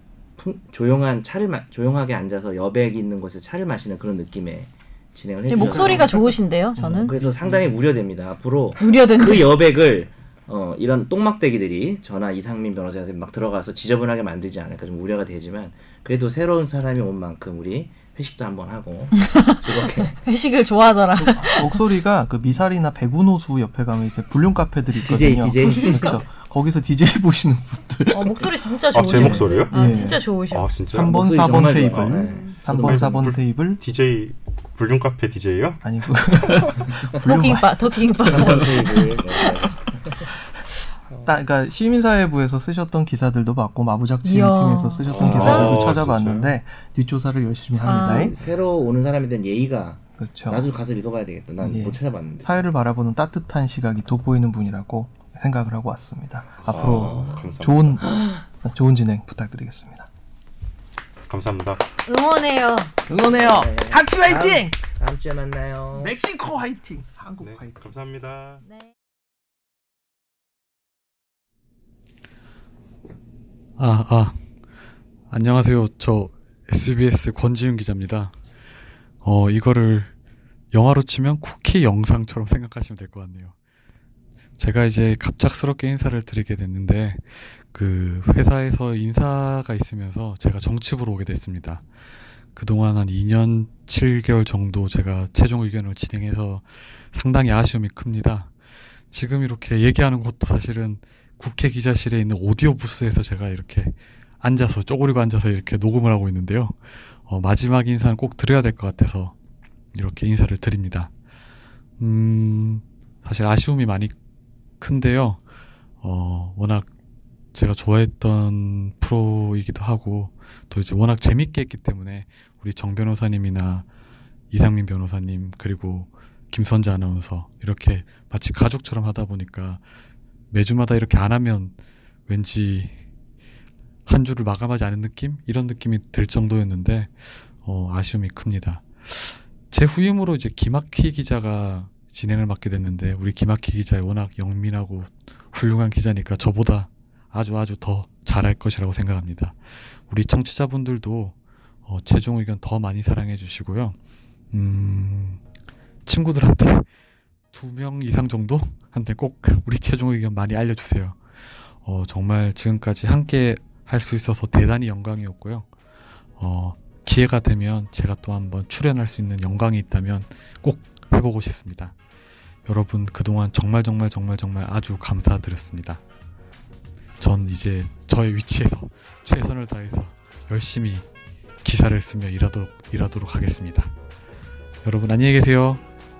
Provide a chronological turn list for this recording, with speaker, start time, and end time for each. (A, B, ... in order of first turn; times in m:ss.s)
0:00.4-0:20.2 A
0:05.5-0:07.2 B
0:05.6-0:06.0 C
0:06.9-0:07.3 C
0:08.8-0:09.5 B
0:19.2-0:21.8 B
0:21.1-0:28.5 C
0:25.0-0:26.2 A
0:25.6-0:26.1 B
0:28.1-0:30.7 B
0:28.9-0:30.0 D
0:29.1-0:30.2 C
0:30.5-0:31.1 D
0:30.9-0:33.8 C
0:31.0-0:33.3 A
0:31.7-0:35.8 D
0:35.8-0:38.9 C
0:37.1-0:39.7 B
0:38.3-0:40.3 A
0:41.2-0:48.4 C
0:44.2-0:45.7 B
0:45.0-0:46.5 D
0:45.1-0:45.8 A
0:47.8-0:48.3 B
0:47.8-0:52.6 A
0:50.2-0:50.7 C
0:51.6-1:00.1 C
0:56.6-0:58.0 D
0:56.7-0:58.4 A
1:01.3-1:01.8 D
1:02.0-1:02.9 B
1:03.1-1:04.8 C
1:03.2-1:06.1 A
1:05.9-1:07.9 C
1:07.4-1:08.6 D
1:13.8-1:14.4 E
1:15.3-1:18.3 E
1:19.2-1:20.1 E
1:20.7-1:23.5 E
1:24.6-1:31.8 E
1:32.5-1:38.5 E
1:39.1-1:49.3 E
1:49.9-1:51.1 E
1:52.0-1:54.1 E
1:54.8-1:55.4 E
1:56.0-1:56.9 E
1:57.5-2:03.8 E
2:04.5-2:09.8 E
2:10.5-2:11.8 E
2:12.3-2:12.9 E
2:14.0-2:34.0 E
2:34.5-2:35.4 E
2:36.0-2:36.9 E
2:37.5-2:41.2 E
2:41.8-2:45.7 E
2:46.4-2:51.9 E
2:52.6-2:56.0 E
2:57.2-3:01.1 E
3:01.6-3:03.9 E
3:04.8-3:05.8 E